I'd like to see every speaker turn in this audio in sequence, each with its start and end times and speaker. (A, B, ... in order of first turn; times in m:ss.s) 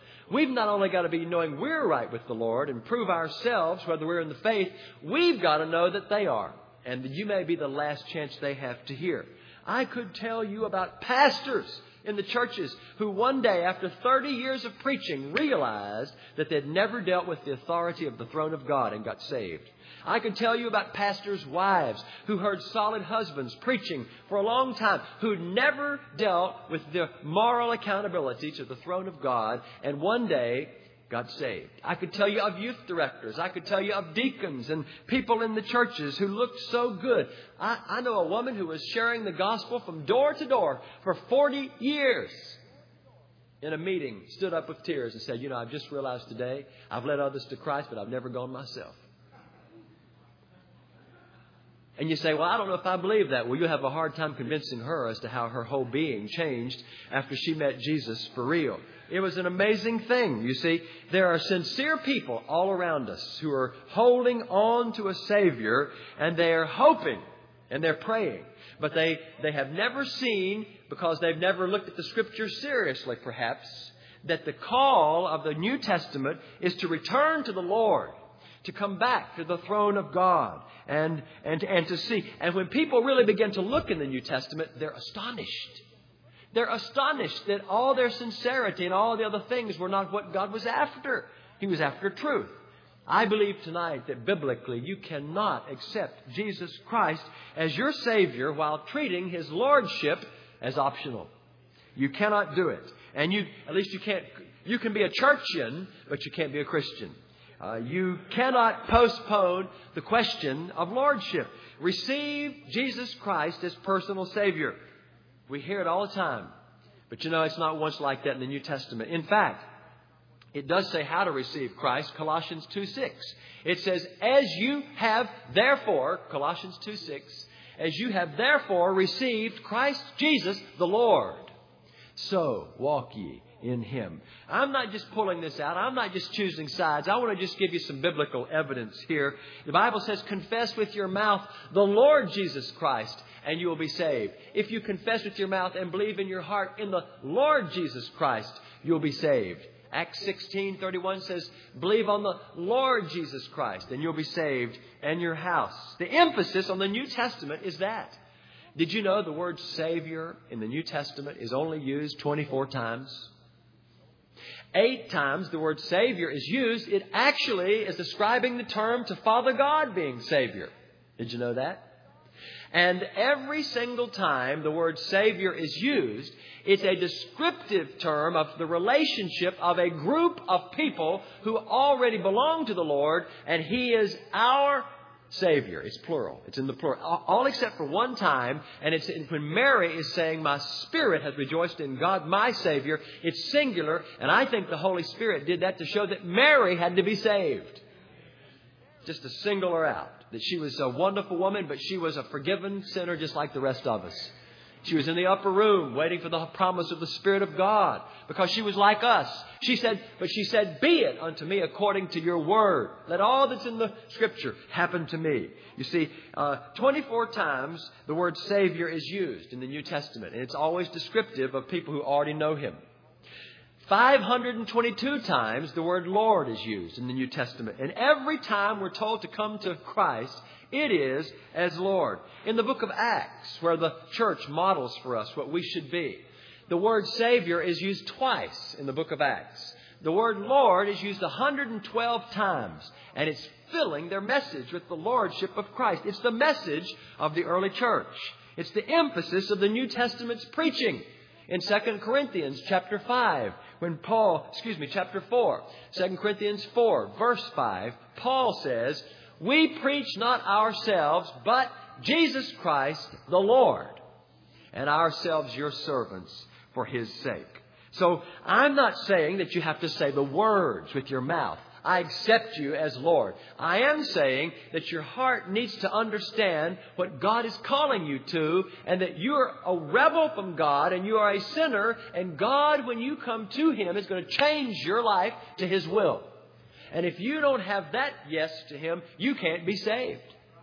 0:00.3-0:42.6 A
0:43.6-0:49.0 A
0:52.0-1:25.8 A
1:26.5-1:32.6 A
1:33.1-1:41.3 A
1:42.0-1:54.8 A
1:55.5-1:56.5 A
1:57.1-1:59.7 A
2:00.5-2:11.5 A
2:12.2-2:38.2 A
2:38.8-2:43.3 A
2:44.7-2:51.9 A
2:52.7-3:17.8 A
3:19.0-3:42.8 A
3:43.8-4:24.0 A
4:24.7-4:46.3 A
4:46.9-4:50.4 A